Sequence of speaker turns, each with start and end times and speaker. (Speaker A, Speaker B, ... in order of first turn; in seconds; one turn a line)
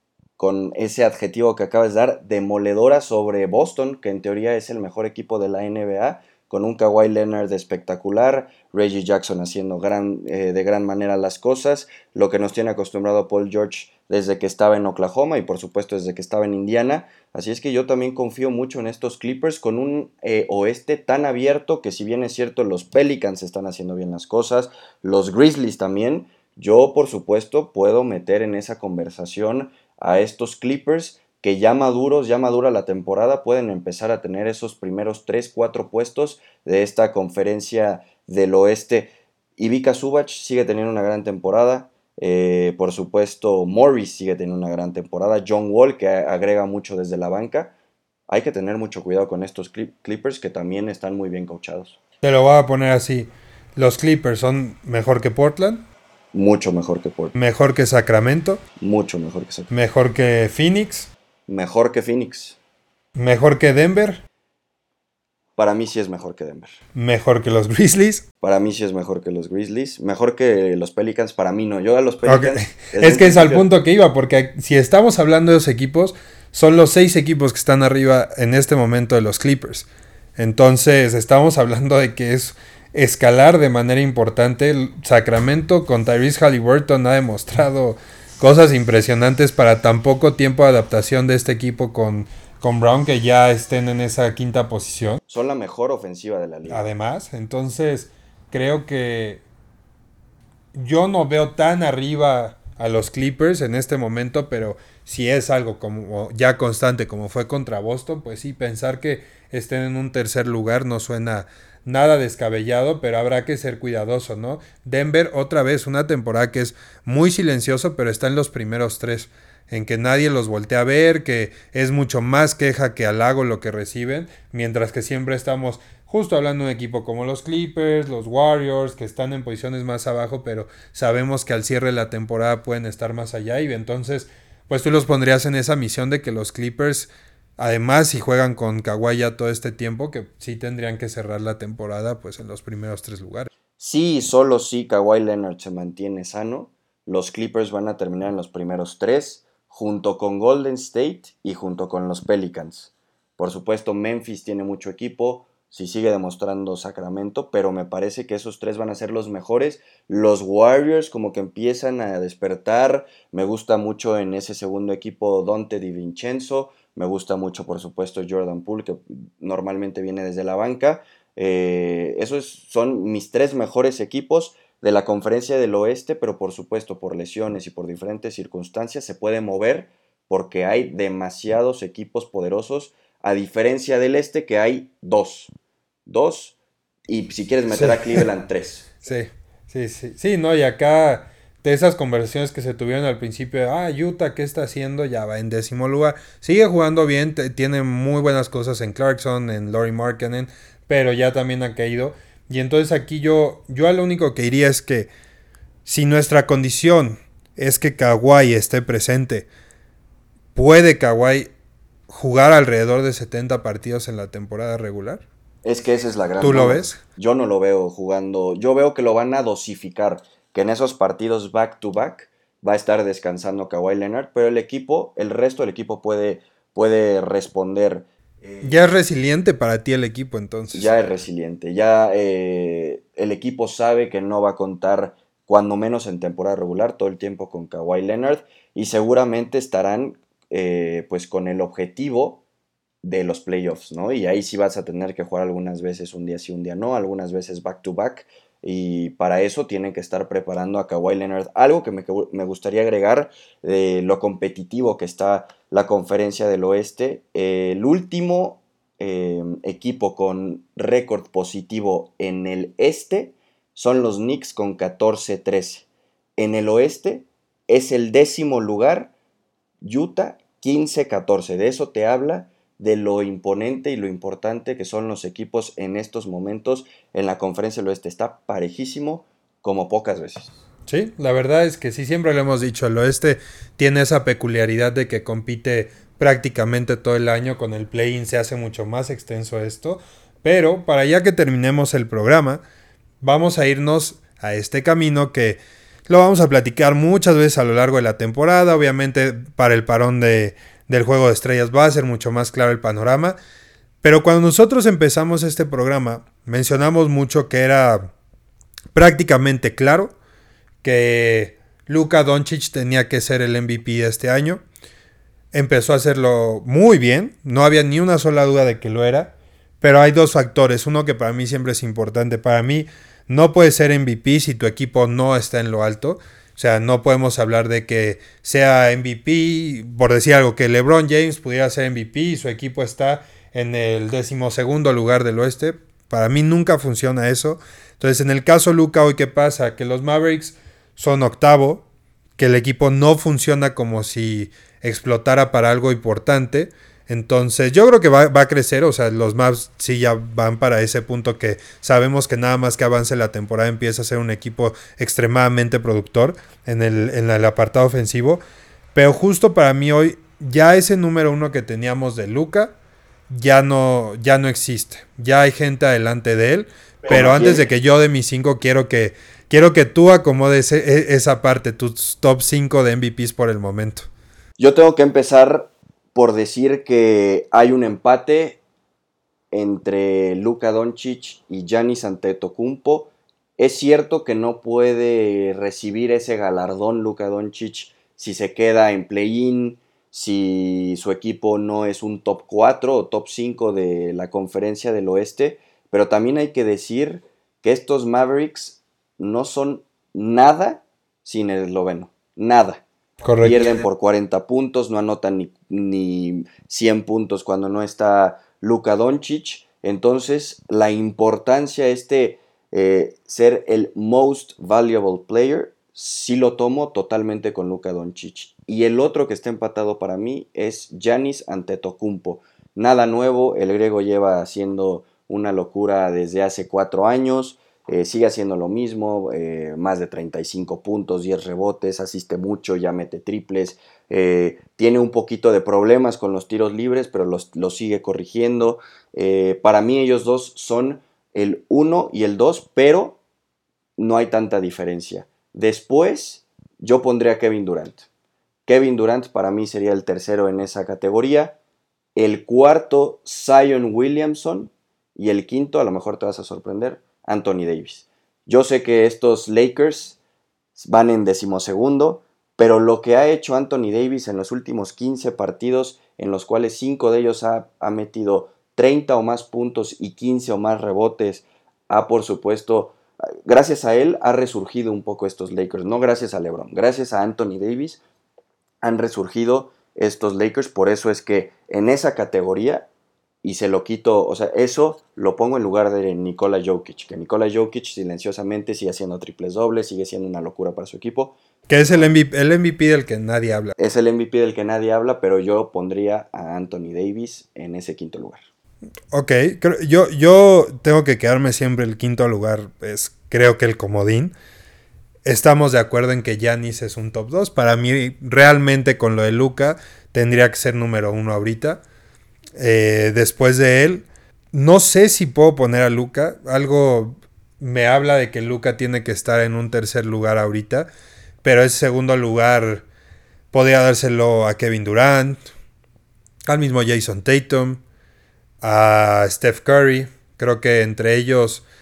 Speaker A: 0.4-47.7
Speaker A: 48.3-52.0
Speaker B: 52.2-55.9
Speaker A: 56.3-57.3
Speaker B: 57.3-58.6
Speaker A: 58.8-59.7
Speaker B: 59.7-61.1
Speaker A: 61.5-62.6
Speaker B: 63.2-64.2
Speaker A: 65.6-66.8
Speaker B: 67.0-68.2
Speaker A: 68.4-73.7
Speaker B: 72.2-95.2
Speaker A: 95.3-96.9
Speaker B: 96.7-99.4
Speaker B: 100.7-143.5
Speaker A: 143.8-185.5
Speaker A: 186.1-186.6
Speaker A: 187.1-188.9
Speaker B: 187.7-188.2
Speaker B: 189.0-205.1
Speaker B: 205.8-209.5
Speaker B: 210.6-211.5
Speaker B: 212.1-215.2
Speaker A: 215.6-228.6
Speaker B: 216.4-217.0
Speaker B: 228.6-230.9
Speaker A: 230.7-242.4
Speaker A: 243.0-269.1
Speaker A: 269.8-280.5
Speaker B: 280.9-292.6
Speaker B: 293.2-303.4
Speaker B: 304.0-308.1
Speaker B: 308.9-310.1
Speaker B: 310.8-314.6
Speaker B: 315.5-341.9
Speaker B: 342.4-358.4
Speaker B: 358.9-362.7
Speaker B: 363.3-374.1
Speaker A: 367.1-367.7
Speaker A: 374.6-378.6
Speaker A: 379.5-402.8
Speaker B: 403.2-403.8
Speaker A: 403.4-443.2
Speaker A: 444.0-448.1
Speaker A: 448.7-451.6
Speaker A: 452.1-460.2
Speaker A: 460.8-478.0
Speaker A: 478.8-482.9
Speaker A: 483.4-491.4
Speaker B: 491.7-493.7
Speaker A: 493.8-498.4
Speaker B: 499.1-504.3
Speaker B: 505.2-511.8
Speaker B: 512.6-520.9
Speaker B: 521.4-522.9
Speaker B: 523.5-525.4
Speaker B: 526.5-527.8
Speaker B: 528.6-531.6